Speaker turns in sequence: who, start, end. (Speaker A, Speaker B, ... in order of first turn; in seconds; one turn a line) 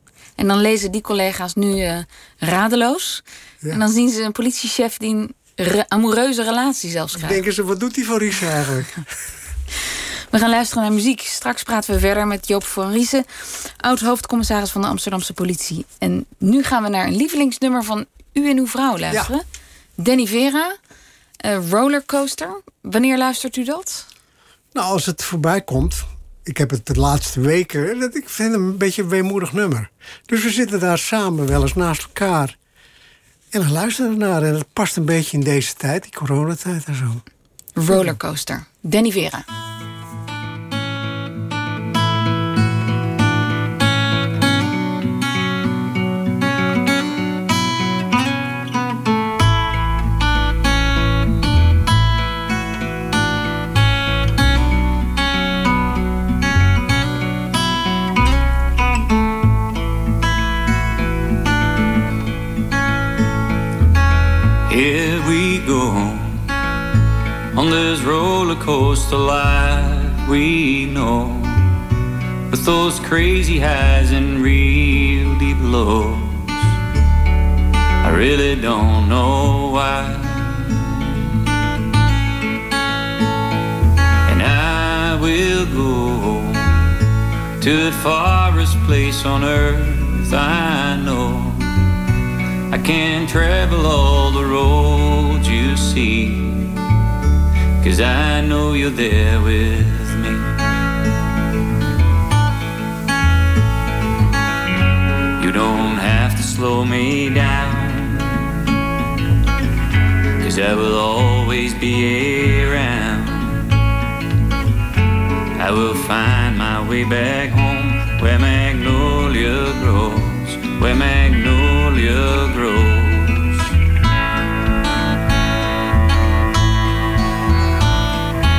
Speaker A: 0.4-7.4
Speaker B: 7.2-9.0
Speaker A: 10.3-19.4
Speaker A: 20.0-20.8
Speaker A: 21.4-24.1
Speaker B: 24.7-32.5
Speaker B: 33.5-37.2
Speaker A: 37.8-39.5
Speaker B: 37.9-38.1
Speaker C: 64.7-66.5
Speaker C: 67.5-71.8
Speaker C: 72.5-76.7
Speaker C: 78.0-81.2
Speaker C: 84.2-86.8
Speaker C: 87.6-91.7
Speaker C: 92.7-96.8
Speaker C: 97.8-100.5
Speaker C: 105.4-108.6
Speaker C: 110.4-113.8
Speaker C: 115.5-123.7